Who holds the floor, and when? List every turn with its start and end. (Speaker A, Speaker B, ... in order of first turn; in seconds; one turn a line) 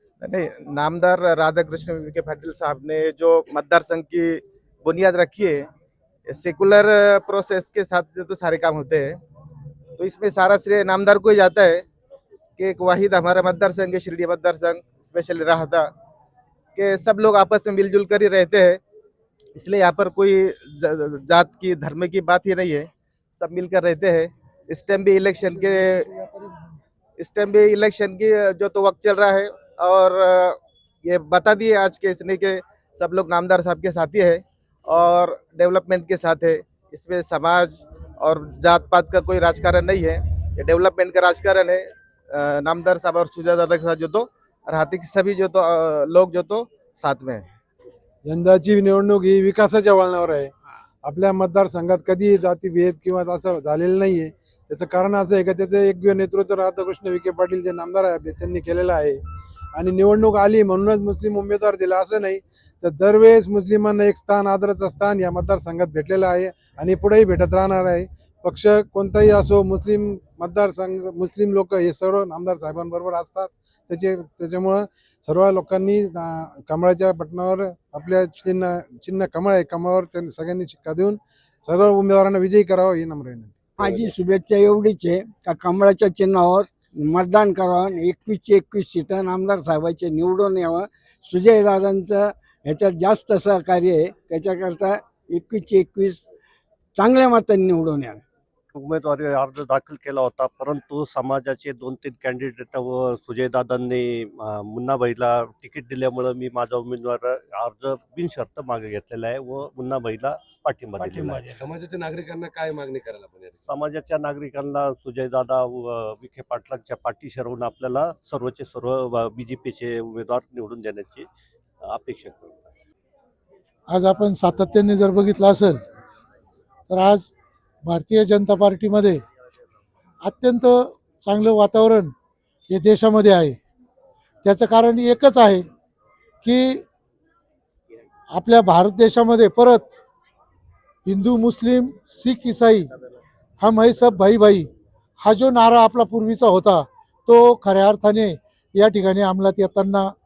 Speaker A: 0.2-5.7
Speaker A: 6.3-9.2
Speaker A: 10.0-11.8
Speaker A: 12.6-15.9
Speaker A: 16.7-18.8
Speaker A: 19.5-26.1
Speaker A: 27.2-47.5
Speaker B: 48.2-50.5
Speaker B: 51.0-59.2
Speaker B: 59.7-83.6
Speaker C: 83.8-96.2
Speaker D: 83.8-84.1
Speaker C: 97.0-98.2
Speaker E: 98.7-111.6
Speaker C: 111.0-111.7
Speaker D: 111.5-113.6
Speaker E: 113.5-121.3
Speaker E: 121.8-122.8
Speaker F: 123.9-125.8
Speaker F: 126.9-127.3
Speaker F: 127.8-129.2
Speaker F: 130.2-132.1
Speaker F: 132.7-133.6
Speaker F: 134.4-135.6
Speaker F: 136.4-136.8
Speaker F: 138.3-139.9
Speaker F: 141.1-142.9
Speaker F: 143.6-144.7
Speaker F: 145.2-150.1